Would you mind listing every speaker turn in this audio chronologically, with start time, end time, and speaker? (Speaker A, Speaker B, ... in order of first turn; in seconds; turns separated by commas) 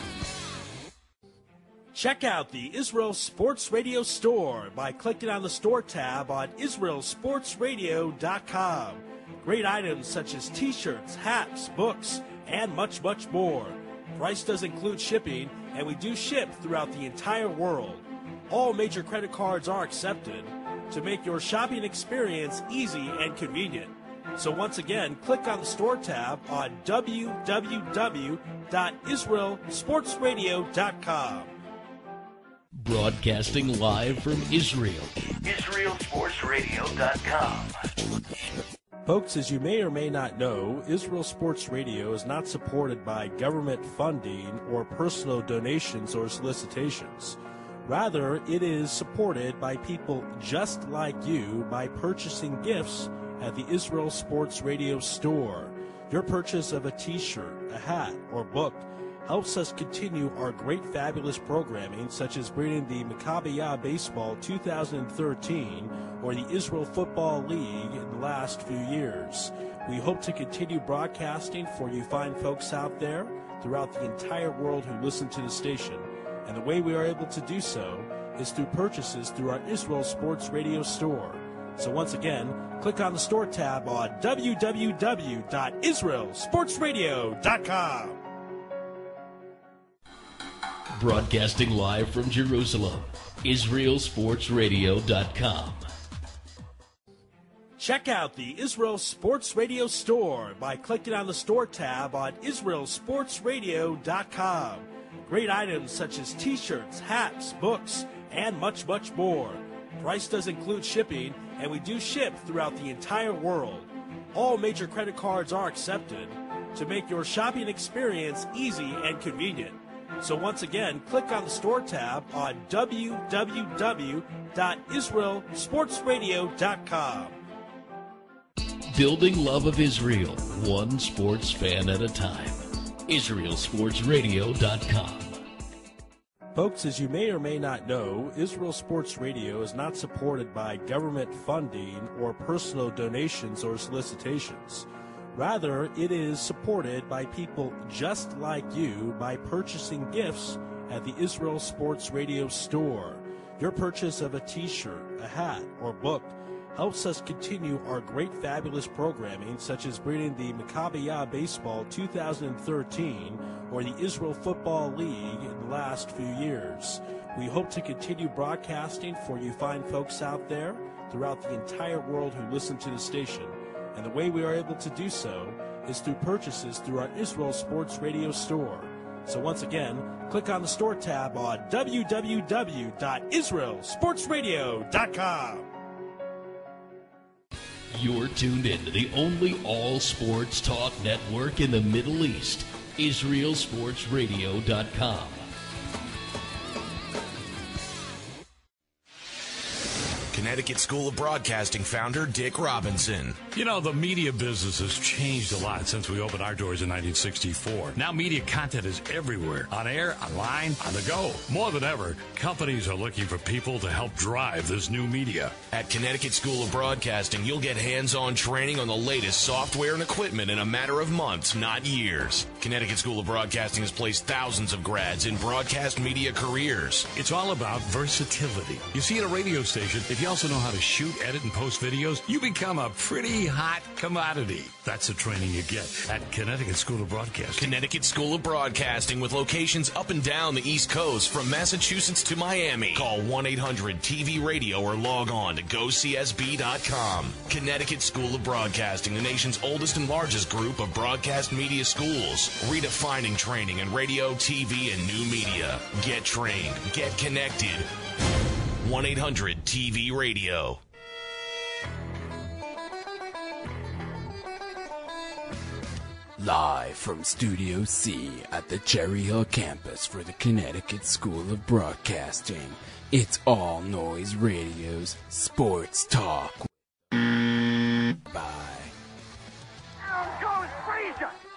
Speaker A: 1.9-31.5, Speaker B: 32.8-37.9, Speaker A: 39.1-88.2, Speaker B: 91.0-95.9, Speaker A: 97.8-127.4, Speaker B: 128.9-135.4, Speaker A: 136.6-185.7, Speaker B: 187.9-195.5, Speaker C: 200.3-203.4, Speaker D: 203.5-215.6, Speaker C: 215.7-227.1, Speaker D: 227.1-237.7, Speaker C: 237.5-257.9, Speaker C: 258.8-260.8, Speaker E: 266.4-276.7, Speaker E: 278.3-278.9, Speaker E: 280.5-281.1